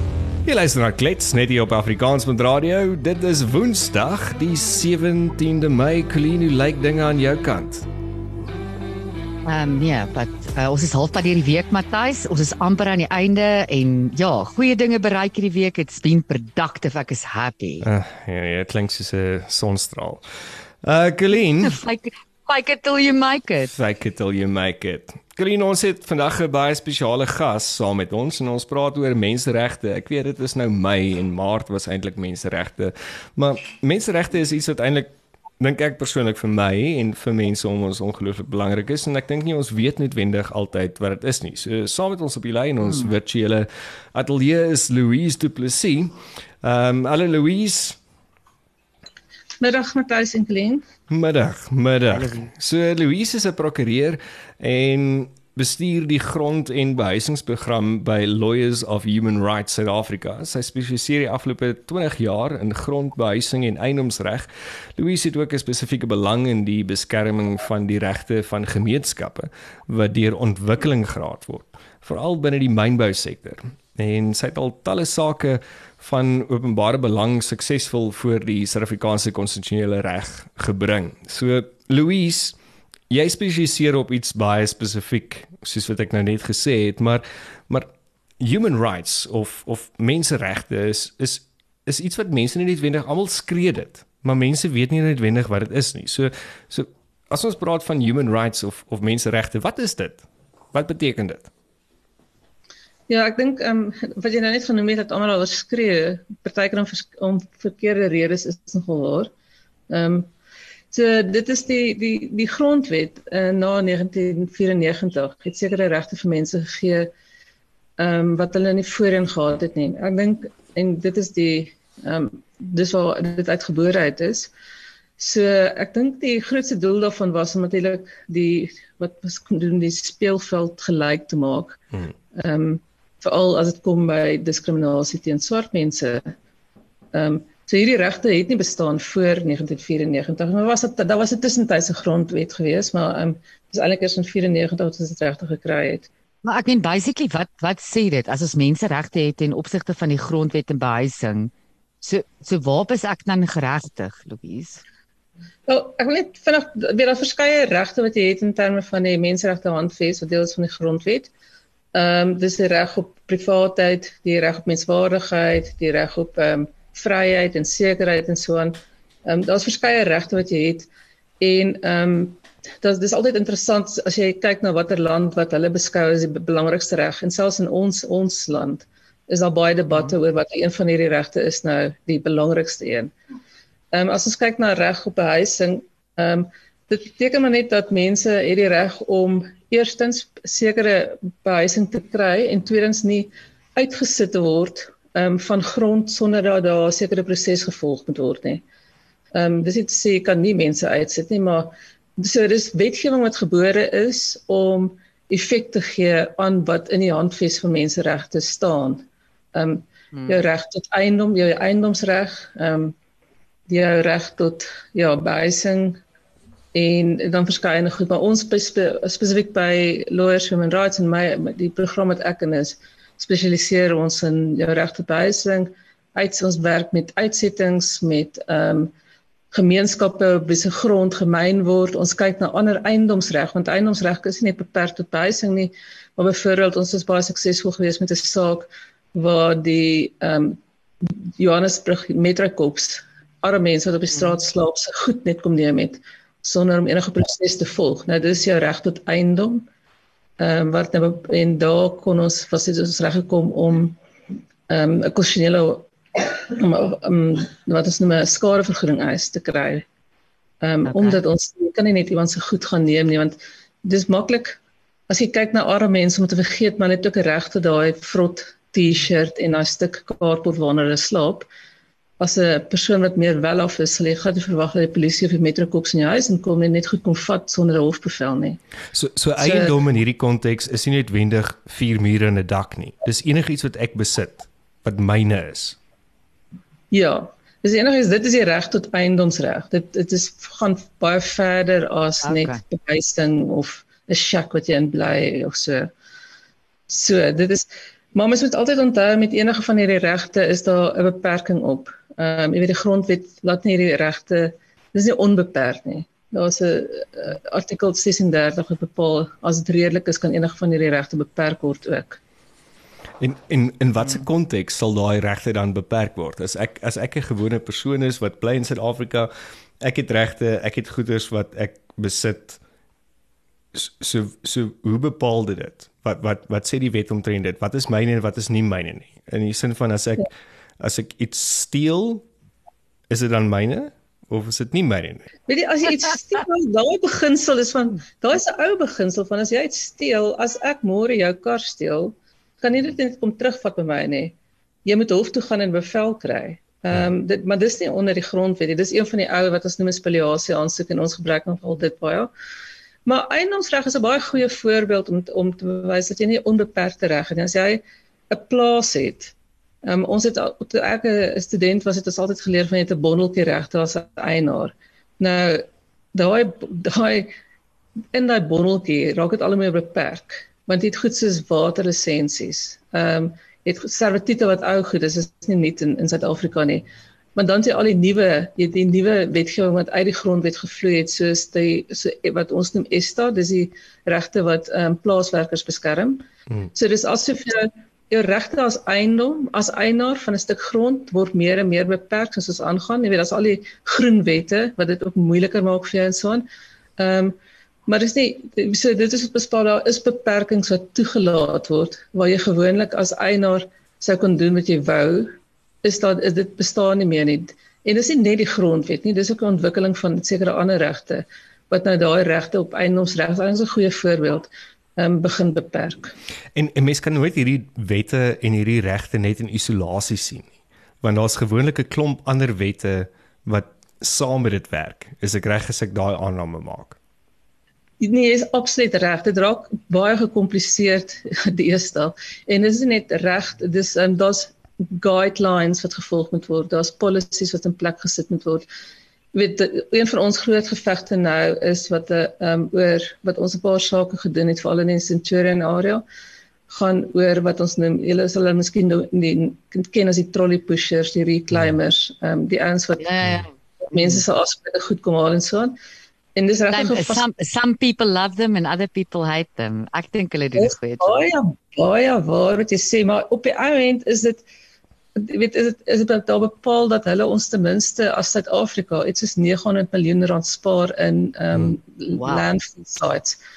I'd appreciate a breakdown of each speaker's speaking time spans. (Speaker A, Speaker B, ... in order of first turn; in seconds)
Speaker A: 0.4-7.9, 17.8-20.2, 20.8-21.8, 23.6-48.0, 51.1-82.5, 83.1-87.9, 88.4-101.5, 278.9-285.8, 313.2-322.6, 323.7-332.2, 333.1-335.3, 416.5-427.0
Speaker B: 9.4-17.9, 21.6-23.7, 52.1-52.5, 146.4-154.8, 210.1-210.4, 260.9-261.2, 292.2-292.6, 453.0-454.2, 456.7-461.1, 472.1-472.4
Speaker C: 49.6-50.8, 103.1-109.3, 109.9-110.3, 110.9-117.1, 118.0-124.5, 125.2-131.8, 132.3-136.3, 137.1-146.1, 155.7-161.3, 161.9-170.9, 171.4-183.1, 183.9-198.6, 199.3-212.9, 213.7-216.0, 216.7-228.9, 229.5-249.6, 250.4-254.0, 254.7-259.8, 260.6-271.5, 272.2-278.6, 279.4-279.8, 286.9-295.9, 296.9-312.2, 335.5-344.3, 344.9-352.3, 353.1-359.3, 359.8-367.3, 368.1-396.4, 397.0-397.4, 397.9-416.1, 428.0-438.6, 439.3-446.0, 446.7-453.1, 453.9-455.8, 456.3-457.2, 460.6-464.4, 465.1-473.4